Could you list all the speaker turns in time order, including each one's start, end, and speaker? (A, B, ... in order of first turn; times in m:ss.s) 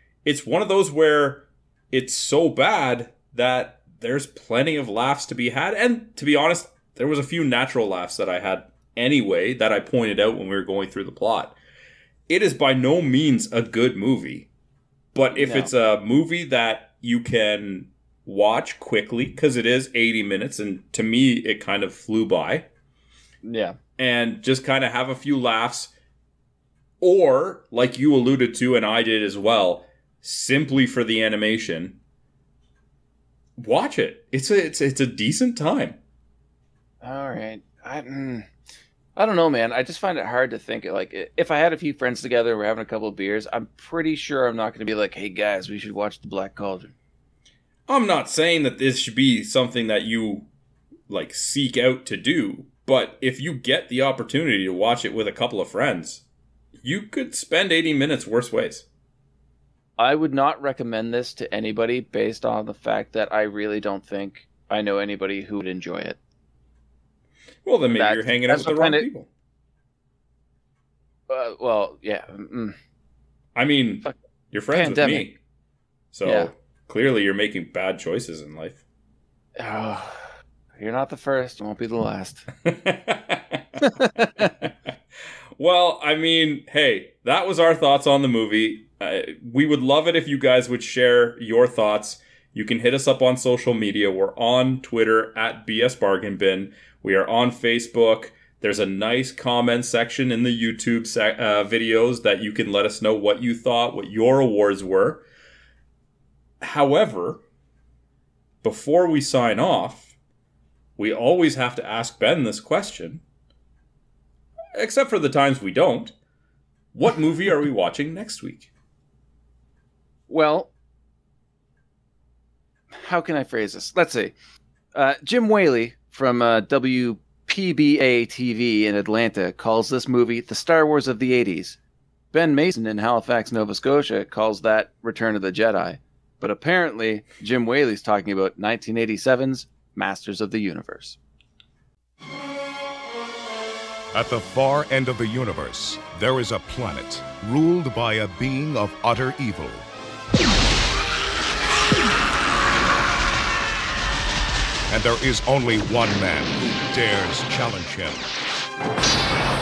0:00.2-0:11.6 A
0:12.3-0:14.5 A
0:15.1-0:22.7 A
0:15.3-0:15.7 B
0:23.4-0:23.8 B
0:24.0-0:25.9 A
0:27.0-0:32.0 A
0:33.6-0:36.0 A
0:37.0-0:38.5 B
0:39.2-0:46.9 B
0:47.9-0:50.5 A
0:51.1-0:56.2 A
0:56.8-0:58.8 A
1:00.0-1:06.2 B
1:07.6-1:09.3 A
1:07.9-1:09.1 B
1:11.3-1:12.8 B
1:13.5-1:15.4 A
1:14.7-1:15.3 B
1:16.1-1:18.8 A
1:16.2-1:16.5 B
1:19.6-1:20.2 B
1:20.8-1:22.5 B
1:22.6-1:23.8 A
1:23.8-1:24.5 B
1:24.4-1:24.7 A
1:25.6-1:45.2 A
1:46.6-1:47.4 A
1:48.6-1:50.1 A
1:51.0-1:53.2 A
1:54.7-1:56.1 A
1:56.9-1:58.7 A
2:00.3-2:00.7 B
2:02.9-2:04.3 B
2:04.9-2:11.8 B
2:12.3-2:21.2 B
2:24.1-2:29.8 C
2:34.9-2:38.3 C